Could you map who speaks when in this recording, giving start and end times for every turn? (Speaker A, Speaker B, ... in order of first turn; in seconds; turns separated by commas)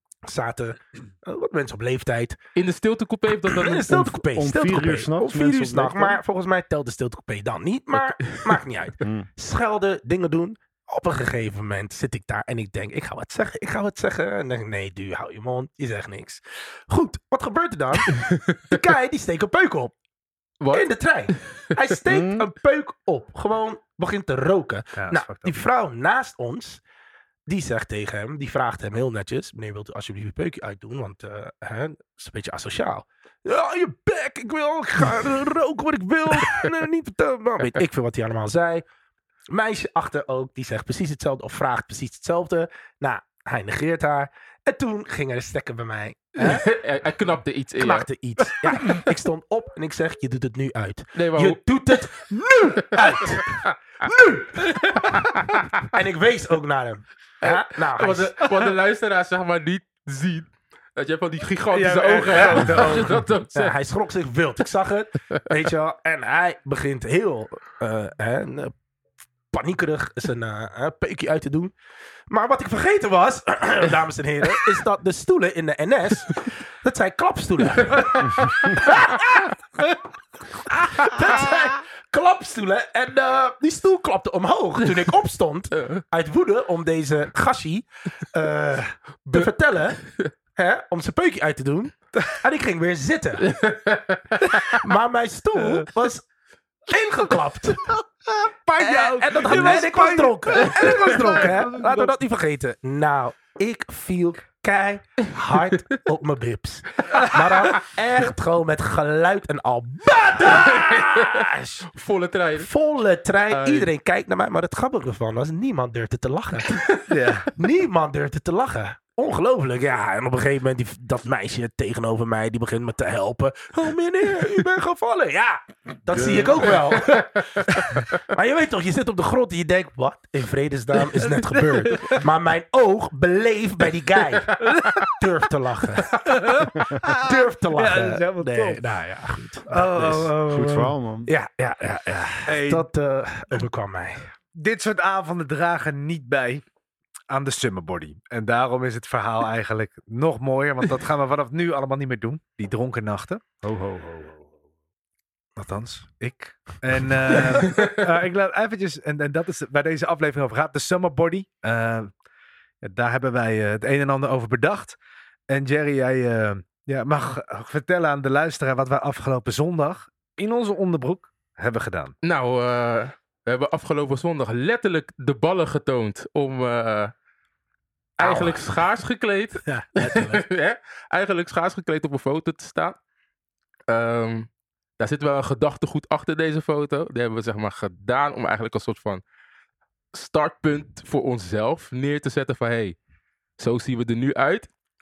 Speaker A: 0.3-2.4, Speaker B: 2.6-4.1, Speaker A: 3.5-19.9, Speaker C: 4.1-6.2, Speaker B: 18.1-18.8, Speaker B: 20.6-21.8, Speaker A: 20.7-26.8, Speaker C: 22.1-22.5, Speaker D: 25.0-25.6, Speaker A: 27.5-38.9, Speaker A: 39.5-46.6, Speaker B: 46.4-48.1, Speaker A: 47.8-58.6, Speaker B: 51.2-51.6, Speaker B: 52.9-53.6, Speaker B: 57.4-63.8, Speaker A: 61.7-68.7, Speaker A: 69.5-71.8, Speaker A: 72.3-79.5, Speaker B: 77.9-78.5, Speaker A: 80.7-90.0, Speaker B: 81.0-81.5, Speaker B: 85.8-86.0, Speaker B: 89.3-90.3, Speaker A: 90.5-93.4, Speaker B: 93.4-94.8, Speaker A: 94.5-96.2, Speaker A: 96.9-98.0, Speaker D: 98.4-102.1, Speaker A: 98.8-111.9, Speaker B: 105.5-105.8, Speaker B: 110.4-112.7, Speaker A: 112.6-116.9, Speaker B: 113.5-113.9, Speaker D: 117.1-117.5, Speaker A: 117.5-136.2, Speaker B: 126.1-127.2, Speaker D: 131.3-132.2, Speaker B: 134.6-135.0, Speaker D: 134.6-135.0, Speaker D: 136.2-138.8, Speaker A: 136.8-144.3, Speaker D: 139.7-140.8, Speaker C: 140.5-142.3, Speaker D: 142.5-142.9, Speaker D: 144.6-146.6, Speaker D: 147.3-153.4, Speaker C: 153.6-154.5, Speaker D: 155.6-162.1, Speaker D: 162.8-165.0, Speaker D: 165.5-172.1, Speaker B: 172.2-177.1, Speaker B: 178.2-183.0, Speaker A: 178.2-178.7, Speaker A: 179.7-180.5, Speaker B: 183.9-189.2, Speaker B: 190.1-193.0, Speaker B: 193.6-194.7